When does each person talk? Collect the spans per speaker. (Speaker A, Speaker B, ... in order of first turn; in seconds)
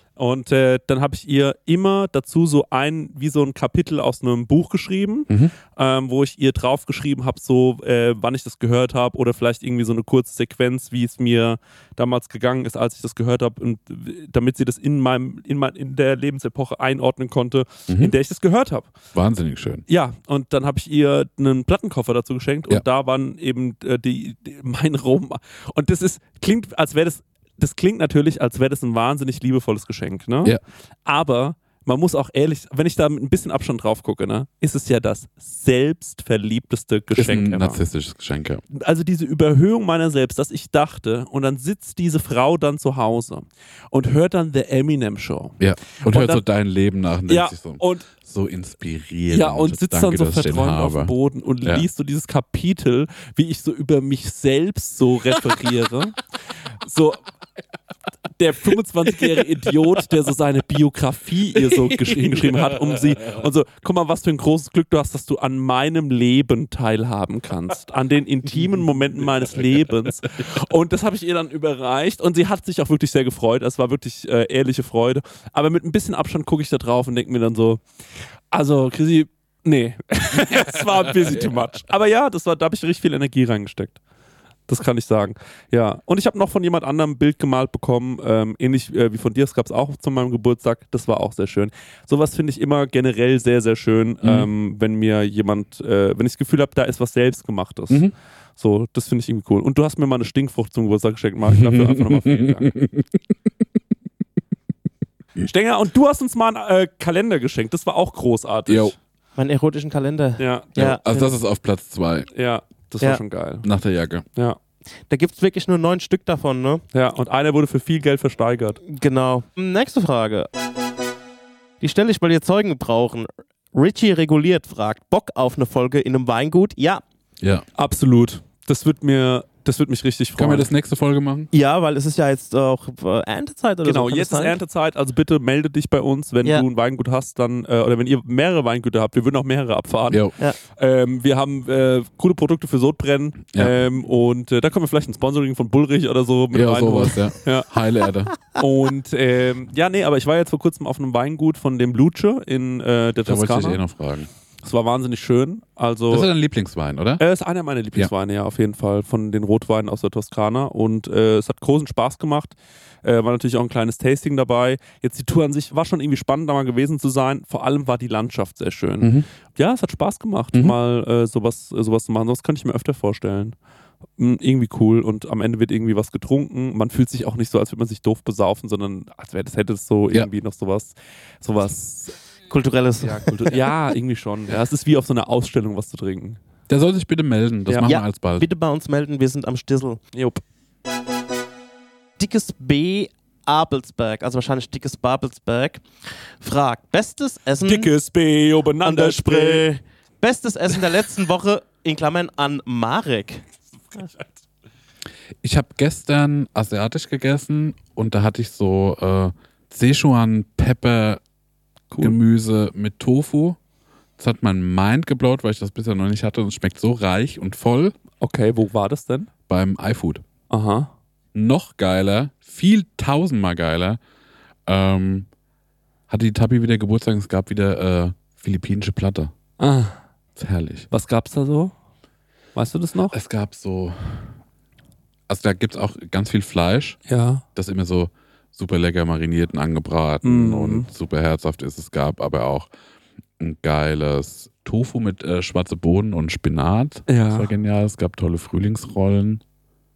Speaker A: 0.2-18.9, 19.9-37.8, 38.7-46.4, 47.3-48.1, 49.3-56.2, 56.8-57.2, 58.4-77.8, 78.5-84.0, 84.7-102.7, 105.4-109.0, 110.4-110.8, 112.3-113.7, 116.9-118.8, 127.8-130.7, 133.8-147.7, 148.6-153.8, 154.6-156.3, 157.2-173.6, 174.2-182.2, 183.0-186.4, 187.7-187.9, 190.1-190.4, 197.6-199.7, 218.2-219.3, 220.5-220.9, 229.6-230.0, 230.9-231.7, 232.6-233.2, 237.1-237.4, 240.2-240.9, 247.1-247.5
Speaker B: 17.9-18.1, 19.1-19.9, 37.1-38.6, 45.6-51.9, 94.2-94.5, 101.5-103.2, 108.7-109.0, 110.8-112.3, 113.6-114.3, 127.4-127.7, 130.4-131.5, 146.5-148.3, 153.2-154.3, 156.1-157.2, 169.0-169.3, 186.7-188.5, 205.4-211.2, 212.0-213.6, 214.2-217.9, 219.5-220.2, 221.3-224.0, 224.7-225.3, 226.1-229.3, 230.4-230.9, 233.1-234.3, 235.3-237.0, 237.6-242.7, 243.4-249.4
Speaker C: 109.4-111.3, 115.1-116.8, 118.9-120.5, 121.8-127.0, 131.5-134.6, 182.5-183.6, 187.8-190.0, 192.2-195.8, 196.4-197.9, 198.8-203.4